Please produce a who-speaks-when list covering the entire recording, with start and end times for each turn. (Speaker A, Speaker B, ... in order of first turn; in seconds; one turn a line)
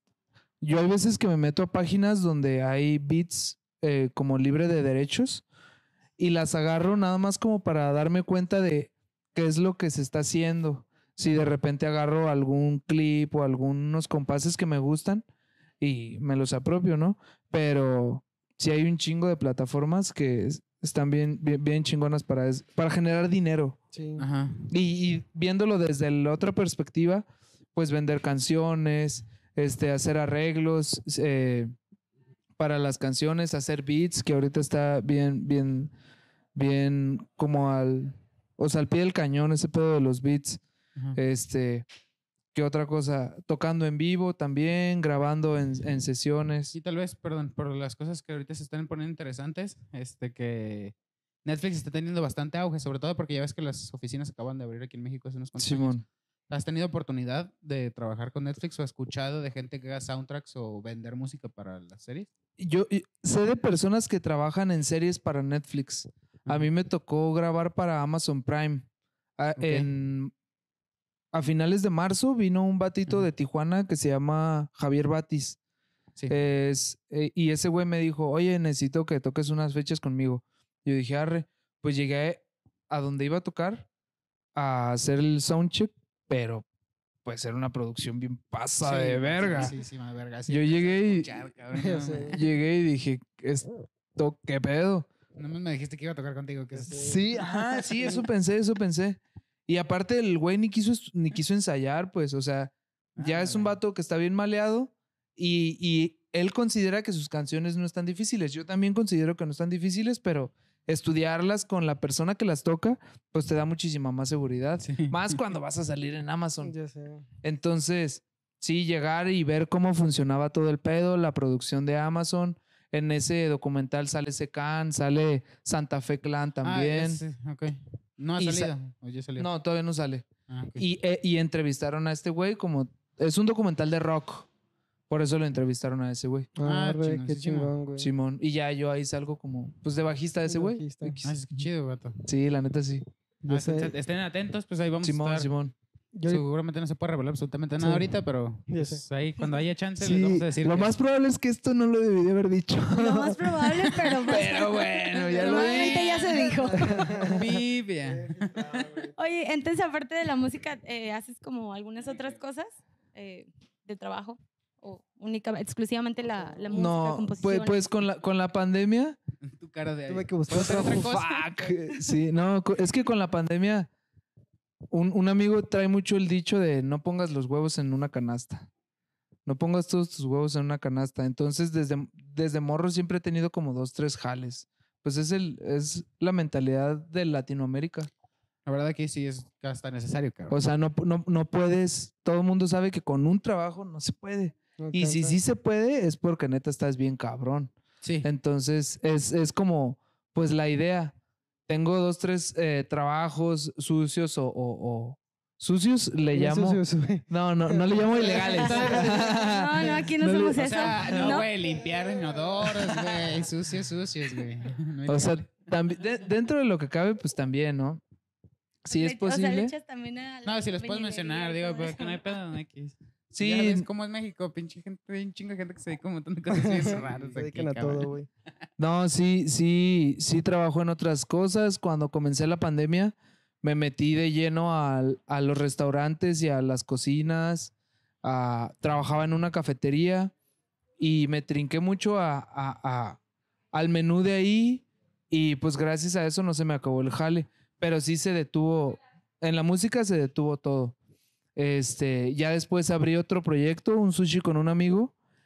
Speaker A: 0.6-5.4
Speaker A: 6.2-15.2
Speaker A: 15.8-23.8
Speaker B: 23.9-24.2
Speaker C: 24.2-24.7
Speaker A: 24.7-31.7
Speaker A: 32.6-35.9
Speaker A: 36.5-40.6
Speaker A: 41.1-41.9
Speaker A: 42.5-46.8
Speaker C: 46.7-62.3
Speaker A: 55.6-56.0
Speaker A: 62.6-68.9
Speaker A: 69.4-70.3
Speaker C: 69.6-69.9
Speaker A: 71.3-75.6
Speaker A: 76.3-83.9
Speaker A: 84.5-86.7
Speaker A: 87.2-89.8
Speaker C: 88.8-92.5
Speaker A: 90.5-91.3
Speaker B: 91.8-92.4
Speaker A: 92.3-95.1
Speaker C: 95.4-97.2
Speaker B: 96.8-97.2
Speaker A: 96.9-116.7
Speaker C: 103.2-103.8
Speaker C: 114.8-115.4
Speaker B: 116.6-117.2
Speaker A: 117.4-127.2
Speaker C: 126.6-129.5
Speaker A: 128.4-128.7
Speaker A: 129.4-134.5
Speaker C: 130.5-130.8
Speaker A: 135.1-136.5
Speaker B: 136.6-138.1
Speaker C: 136.6-137.7
Speaker A: 138.0-141.6
Speaker B: 140.5-141.3
Speaker C: 141.2-142.2
Speaker A: 142.2-143.1
Speaker B: 143.4-143.9
Speaker C: 143.5-145.5
Speaker A: 145.0-145.8
Speaker B: 146.2-146.4
Speaker C: 146.3-151.0
Speaker B: 147.8-148.1
Speaker B: 148.7-149.0
Speaker A: 150.0-156.2
Speaker D: 152.9-157.3
Speaker B: 155.3-159.2
Speaker C: 157.2-158.7
Speaker D: 159.2-167.8
Speaker B: 166.3-166.7
Speaker A: 166.7-169.2
Speaker C: 169.4-171.5
Speaker B: 170.1-171.1
Speaker A: 170.5-173.9
Speaker A: 174.9-178.7
Speaker A: 179.5-188.1
Speaker C: 188.7-190.6
Speaker A: 190.5-201.2
Speaker B: 194.8-195.4
Speaker C: 198.0-198.3
Speaker A: 201.7-211.4
Speaker B: 206.3-209.4
Speaker C: 208.2-209.3
Speaker D: 208.4-211.5
Speaker C: 210.5-215.5
Speaker B: 211.6-213.3
Speaker A: 215.1-218.0
Speaker A: 218.8-219.8
Speaker D: 218.9-222.2
Speaker C: 220.4-228.1
Speaker A: 223.3-223.9
Speaker B: 226.6-228.3
Speaker A: 228.8-240.3
Speaker A: 241.0-243.2
Speaker A: 243.7-250.9
Speaker A: 251.6-255.1